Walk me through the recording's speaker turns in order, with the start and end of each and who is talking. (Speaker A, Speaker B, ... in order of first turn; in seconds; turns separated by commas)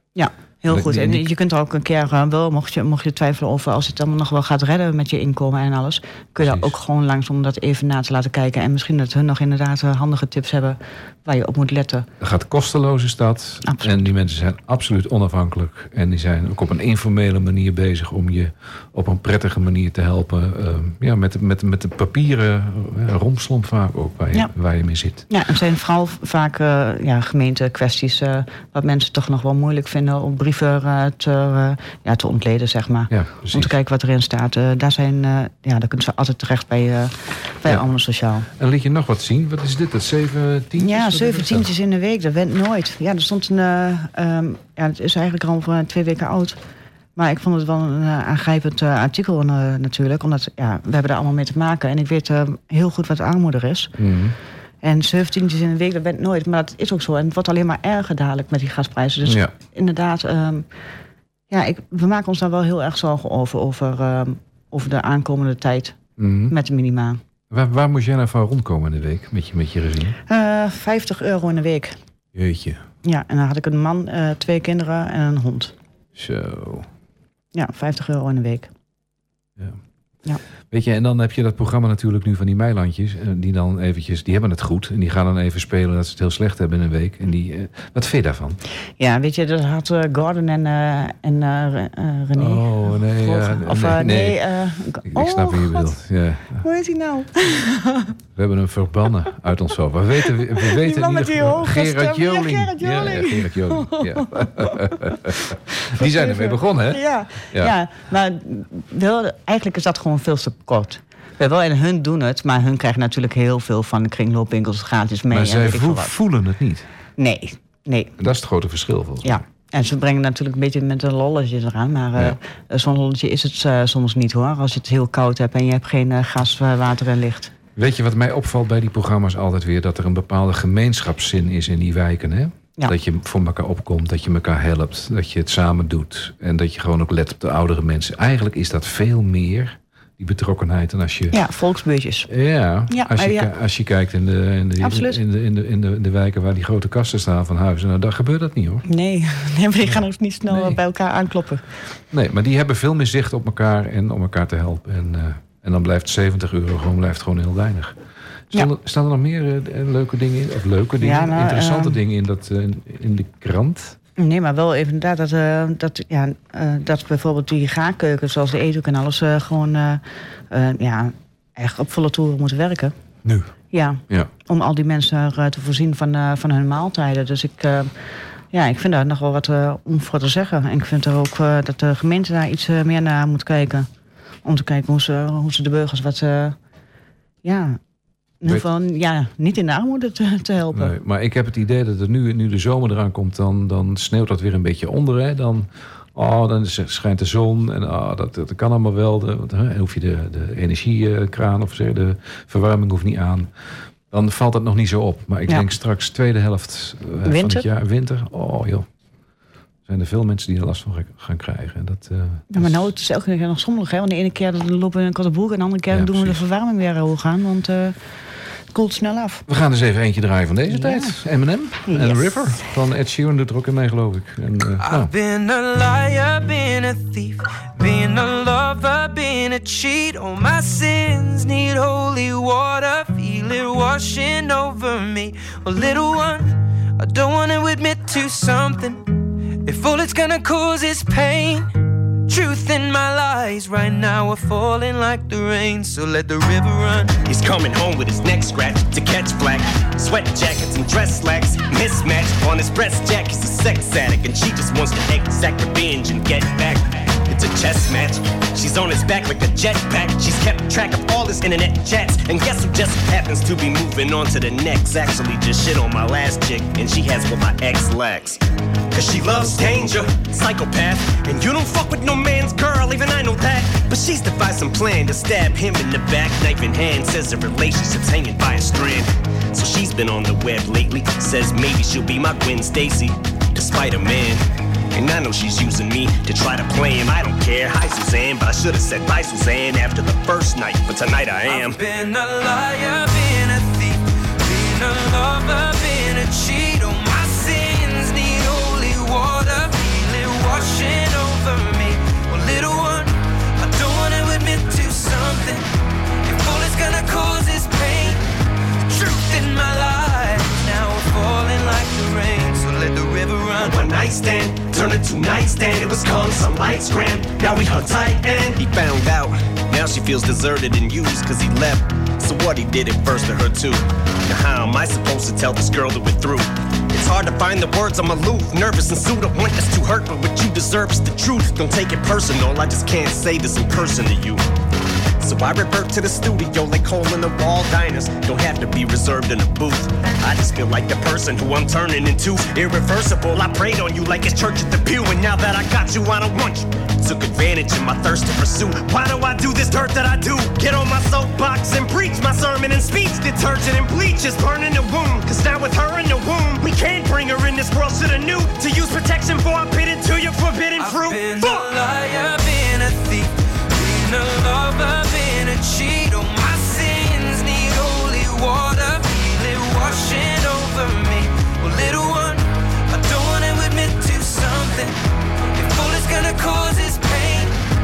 Speaker A: 0.1-12.1, Speaker B: 0.7-1.2, Speaker B: 6.4-6.7, Speaker B: 12.2-25.2, Speaker A: 13.6-14.1, Speaker A: 25.3-38.5, Speaker B: 33.1-33.7, Speaker B: 38.6-41.7, Speaker A: 40.8-46.6, Speaker A: 47.1-53.9, Speaker B: 54.0-54.4, Speaker A: 54.8-60.6, Speaker B: 59.2-59.5, Speaker A: 61.5-66.0, Speaker B: 66.2-66.5, Speaker A: 66.5-67.2, Speaker B: 67.5-70.2, Speaker A: 70.3-72.0, Speaker B: 72.3-72.8, Speaker A: 73.0-75.7, Speaker B: 76.1-76.9, Speaker A: 77.5-78.7, Speaker B: 80.7-88.6, Speaker A: 89.0-95.9, Speaker B: 92.3-94.4, Speaker B: 95.0-96.6, Speaker A: 96.6-98.1, Speaker B: 98.4-107.7, Speaker A: 100.6-105.2, Speaker A: 105.9-116.1, Speaker B: 115.3-116.9, Speaker A: 117.2-118.1, Speaker B: 118.2-119.4, Speaker A: 119.2-127.5, Speaker B: 127.8-141.4, Speaker A: 141.3-142.3, Speaker B: 142.3-148.8, Speaker A: 142.9-143.5, Speaker A: 144.8-145.2, Speaker A: 148.9-151.6, Speaker B: 149.9-150.8, Speaker B: 152.1-158.0, Speaker B: 158.5-164.0, Speaker A: 161.0-162.0, Speaker A: 164.2-172.9, Speaker A: 173.7-177.9, Speaker A: 178.5-183.9, Speaker A: 184.4-186.6, Speaker A: 187.4-187.8, Speaker A: 188.4-190.9, Speaker B: 190.7-203.5, Speaker B: 204.1-208.9, Speaker A: 207.2-207.7, Speaker B: 209.9-212.9, Speaker A: 212.5-218.0, Speaker B: 215.9-216.4, Speaker A: 218.7-219.4, Speaker B: 219.5-225.1, Speaker A: 220.7-221.2, Speaker A: 221.9-222.7, Speaker C: 224.8-241.7, Speaker C: 242.2-247.2, Speaker D: 247.2-268.4, Speaker D: 268.9-291.8, Speaker C: 291.4-305.6, Speaker C: 306.2-308.2, Speaker C: 308.9-313.9, Speaker D: 313.6-334.4, Speaker D: 335.2-361.6, Speaker C: 360.8-374.9, Speaker C: 375.6-377.6